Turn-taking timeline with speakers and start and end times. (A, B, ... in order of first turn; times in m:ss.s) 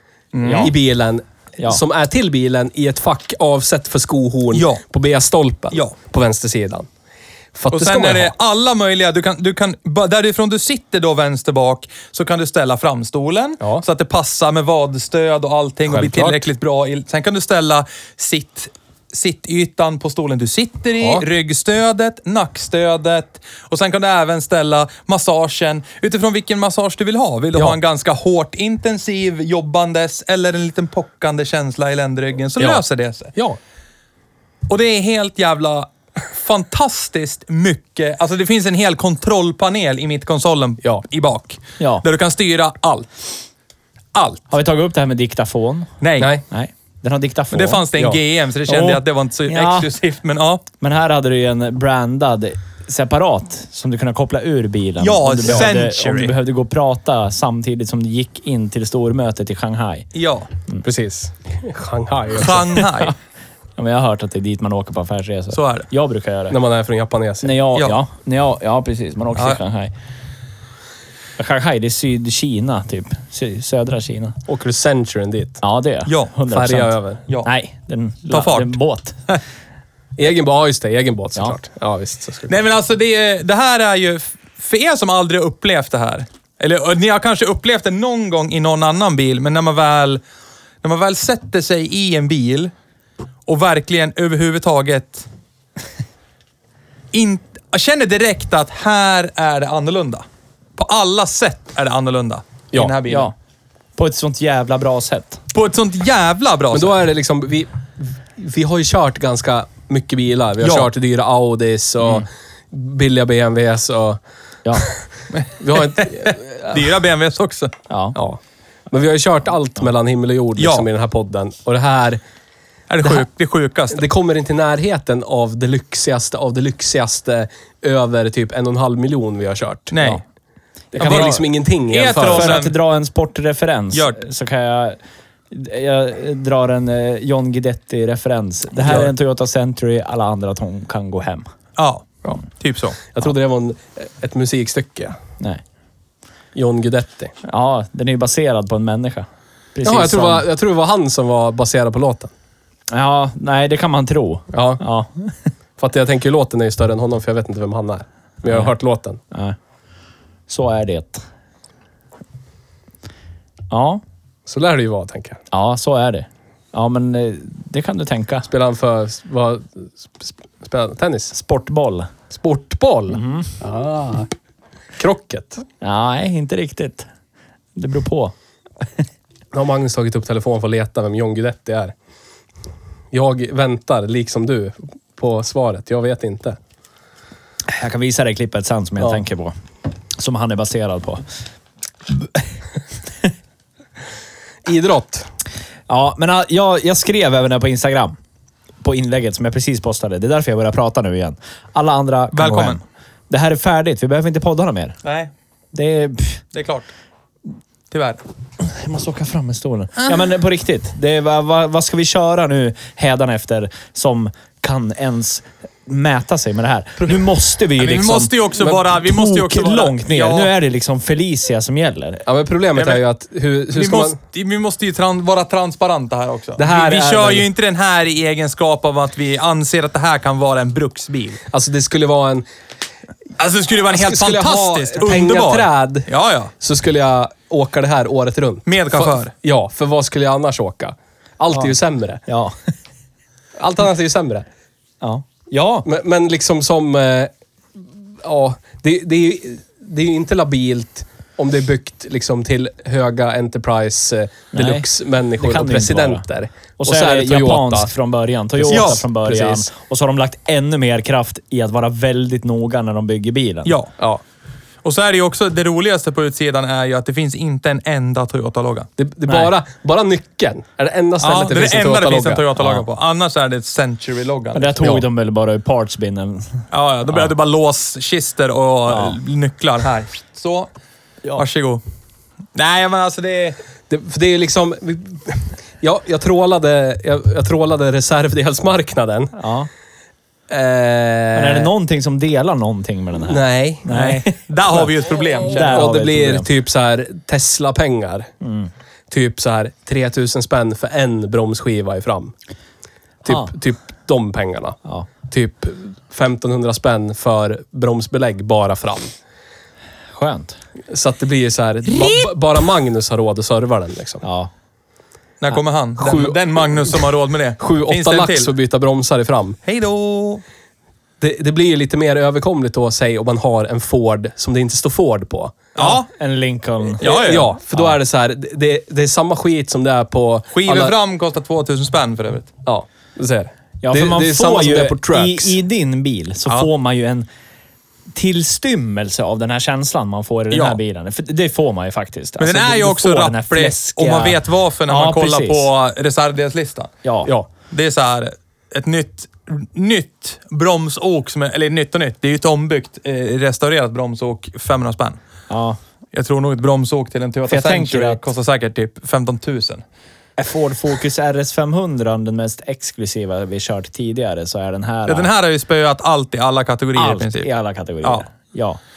0:00.3-0:00.7 A
0:00.4-0:00.7 B
0:00.6-0:06.9 C
0:04.5-0:04.8 A
0:07.5-0:08.3 C
0:07.7-0:33.3 A
0:15.9-0:16.4 C
0:21.0-0:21.2 C
0:34.7-0:43.3 A
0:41.8-0:42.0 B
0:44.1-0:44.4 A
0:44.5-0:45.9 B
0:46.0-0:46.4 A
0:46.5-0:47.8 B
0:47.5-0:50.6 A
0:48.7-0:49.9 B
0:50.8-1:00.1 B
0:55.0-0:56.4 A
1:00.1-1:00.5 A
1:00.8-1:02.7 C
1:02.3-1:03.1 A
1:02.8-1:03.1 B
1:03.8-1:06.6 B
1:05.5-1:05.9 A
1:06.5-1:07.6 C
1:07.4-1:09.9 B
1:11.4-1:14.4 B
1:14.5-1:15.6 C
1:15.6-1:19.2 B
1:16.1-1:16.3 A
1:16.5-1:17.2 C
1:18.3-1:18.8 A
1:20.2-1:22.6 C
1:22.5-1:30.2 A
1:30.8-1:32.7 A
1:33.5-1:35.3 A
1:37.1-1:40.2 A
1:40.8-1:43.3 A
1:43.1-1:43.3 B
1:44.0-1:45.4 B
1:45.5-1:47.0 A
1:46.7-1:54.2 C
1:50.6-1:50.9 A
1:55.4-1:57.7 A
1:55.6-1:56.9 C
1:57.9-1:58.2 B
1:58.1-2:02.2 C
2:00.6-2:00.8 A
2:02.9-2:04.0 A
2:03.9-2:09.9 C
2:09.9-2:10.2 A
2:10.9-2:12.6 C
2:11.0-2:11.4 B
2:11.0-2:12.8 A
2:12.2-2:15.0 B
2:13.9-2:14.2 A
2:15.5-2:21.4 B
2:21.8-2:23.0 A
2:23.1-2:25.2 C
2:26.5-2:27.3 C
2:27.4-2:30.4 B
2:29.8-2:32.3 C
2:32.9-2:35.5 B
2:34.5-2:34.8 C
2:35.8-2:39.2 C
2:39.3-2:39.6 B
2:40.5-2:41.2 B
2:43.7-2:44.0 B
2:44.5-2:45.4 C
2:45.5-2:48.5 B
2:48.5-2:51.3 C
2:51.3-2:52.1 B
2:52.3-2:54.3 C
2:53.1-2:53.5 B
2:55.0-2:55.6 C
2:55.8-2:57.1 B
2:57.8-2:58.3 B
2:59.5-3:01.9 C
3:03.1-3:06.6 C
3:07.7-3:09.5 B
3:10.2-3:11.2 B
3:14.6-3:15.3 C
3:15.9-3:18.2 B
3:18.8-3:25.0 B
3:22.3-3:22.8 A
3:25.0-3:25.3 A
3:25.7-3:26.4 B
3:26.5-3:26.9 A
3:27.9-3:28.2 A
3:28.6-3:38.3 B
3:37.8-3:40.5 A
3:38.9-3:42.2 B
3:42.2-3:44.2 C
3:42.8-3:43.0 A
3:43.7-3:51.4 A
3:46.6-3:47.5 C
3:51.5-3:52.4 C
3:53.4-3:56.5 A
3:53.9-3:56.1 C
3:56.6-4:02.2 C
3:58.7-3:59.3 A
4:02.3-4:02.7 B
4:03.6-4:04.4 C
4:05.0-4:05.9 B
4:05.8-4:17.9 C
4:14.5-4:14.8 B
4:15.4-4:16.2 B
4:16.8-4:23.7 B
4:18.5-4:19.7 C
4:18.7-4:19.0 A
4:23.6-4:23.9 A
4:24.8-4:28.9 A
4:29.0-4:32.7 C
4:29.3-4:29.5 B
4:31.2-4:34.8 A
4:34.5-4:37.3 B
4:36.7-4:40.7 A
4:38.9-4:39.2 B
4:41.4-4:41.8 A
4:42.5-4:43.6 A
4:43.9-4:49.3 C
4:49.4-4:49.7 B
4:50.5-4:51.7 C
4:51.3-4:54.9 B
4:53.2-4:53.8 C
4:53.9-4:55.8 A
4:55.5-4:56.5 B
4:55.5-4:58.3 C
4:58.4-4:58.7 B
4:59.1-5:02.3 C
5:03.2-5:09.1 C
5:10.1-5:10.6 B
5:10.9-5:14.2 C
5:14.2-5:14.5 B
5:15.4-5:18.5 A
5:16.0-5:17.0 C
5:17.6-5:19.6 C
5:19.6-5:20.4 A
5:21.2-5:25.7 C
5:25.8-5:26.1 A
5:25.8-5:27.9 B
5:27.0-5:27.5 A
5:27.0-5:31.0 C
5:30.5-5:32.5 A
5:32.6-5:35.6 C
5:33.8-5:37.3 B
5:38.1-5:45.7 B
5:40.5-5:40.8 A
5:42.4-5:46.9 A
5:47.0-5:47.3 B
5:47.7-5:55.2 A
5:55.5-5:55.8 B
5:56.1-5:59.8 A
5:57.5-5:58.2 B
6:00.4-6:05.3 B
6:05.1-6:07.5 A
6:06.9-6:08.8 B